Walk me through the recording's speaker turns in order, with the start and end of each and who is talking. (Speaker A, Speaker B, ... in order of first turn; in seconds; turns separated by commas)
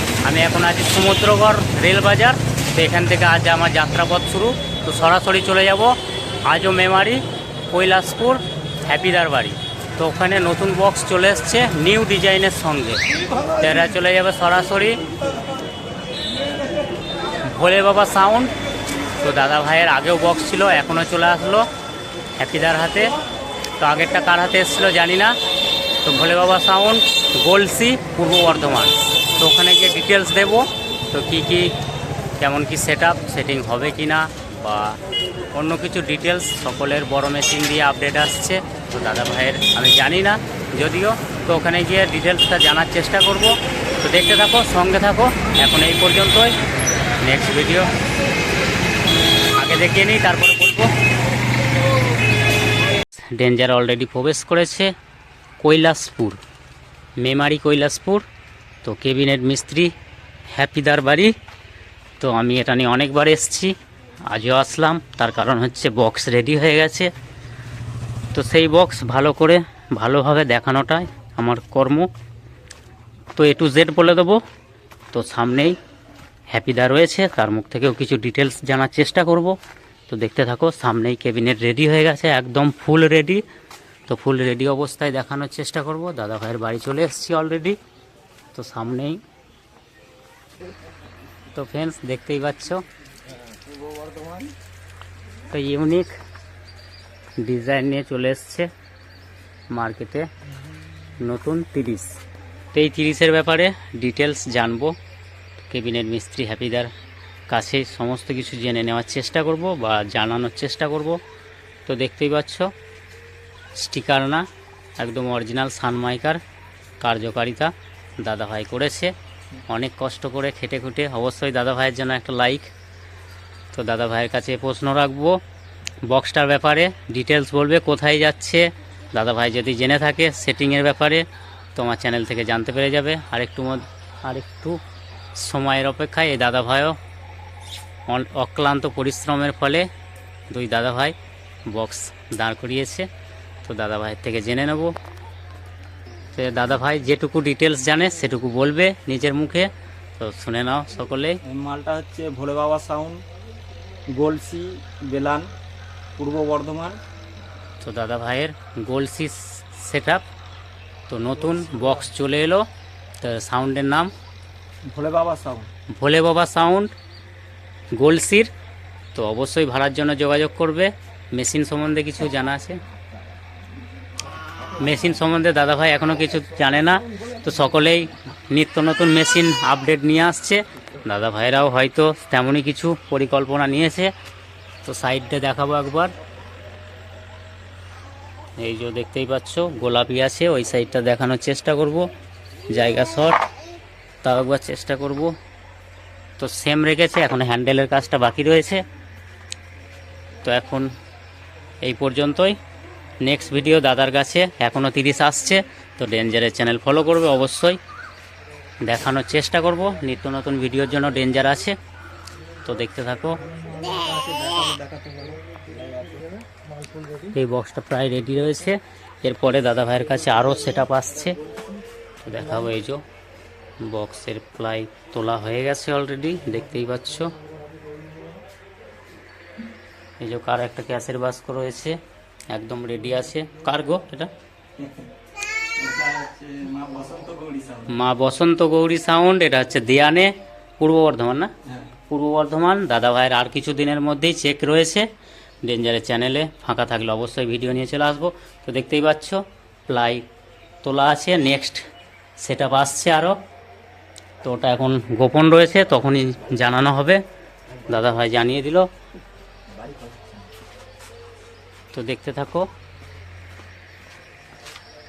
Speaker A: 0.2-13.0, Speaker A: 13.6-15.0, Speaker A: 17.4-18.5, Speaker A: 19.2-21.7, Speaker A: 22.4-23.1, Speaker A: 23.8-25.4, Speaker A: 26.0-31.7, Speaker A: 32.4-35.0, Speaker A: 35.5-46.5, Speaker A: 47.2-47.9, Speaker A: 49.6-50.9, Speaker A: 53.3-54.9, Speaker A: 55.6-56.4, Speaker A: 57.2-58.2, Speaker A: 58.8-59.9, Speaker A: 60.5-61.3, Speaker A: 62.2-63.7, Speaker A: 64.3-67.1, Speaker A: 68.3-72.1, Speaker A: 73.3-74.4, Speaker A: 75.1-75.8, Speaker A: 76.5-79.6, Speaker A: 80.1-83.4, Speaker A: 84.1-87.8, Speaker A: 88.5-89.2, Speaker A: 91.5-92.8, Speaker B: 93.6-94.5, Speaker A: 95.5-96.1, Speaker A: 97.4-98.7, Speaker A: 99.7-100.3, Speaker A: 101.2-102.2, Speaker A: 102.7-105.0, Speaker A: 105.6-106.9, Speaker A: 107.5-111.2, Speaker A: 111.8-112.7, Speaker A: 113.7-114.5, Speaker A: 115.0-116.4, Speaker A: 117.0-119.1, Speaker A: 119.7-122.7, Speaker A: 123.7-125.4, Speaker A: 126.0-134.8, Speaker A: 135.3-137.0, Speaker A: 138.1-139.9, Speaker A: 140.5-141.2, Speaker A: 141.7-143.1, Speaker A: 143.6-144.9, Speaker A: 146.3-151.4, Speaker B: 151.4-153.2, Speaker B: 154.1-155.5, Speaker B: 156.2-157.0, Speaker A: 157.8-160.2, Speaker A: 161.1-162.7, Speaker A: 163.2-164.1, Speaker B: 164.9-165.7, Speaker A: 165.9-166.9, Speaker A: 167.9-168.5, Speaker A: 169.1-172.8, Speaker A: 174.8-184.1, Speaker A: 184.8-186.1, Speaker A: 188.6-192.1, Speaker A: 192.7-193.4, Speaker A: 194.2-195.3, Speaker A: 196.4-198.8, Speaker A: 200.4-200.9, Speaker A: 201.8-202.6, Speaker A: 203.2-207.8, Speaker A: 208.8-211.8, Speaker A: 212.6-213.4, Speaker B: 213.4-216.4, Speaker A: 217.3-221.4, Speaker A: 222.2-223.0, Speaker A: 223.8-227.3, Speaker A: 230.2-232.0, Speaker A: 232.5-234.3, Speaker B: 234.8-235.1, Speaker B: 235.8-237.9, Speaker A: 237.9-241.5, Speaker B: 241.7-241.9, Speaker A: 242.1-245.1, Speaker A: 245.6-250.3, Speaker A: 250.8-251.8, Speaker A: 252.4-253.4, Speaker A: 254.4-257.2, Speaker A: 257.9-258.9, Speaker A: 261.9-262.7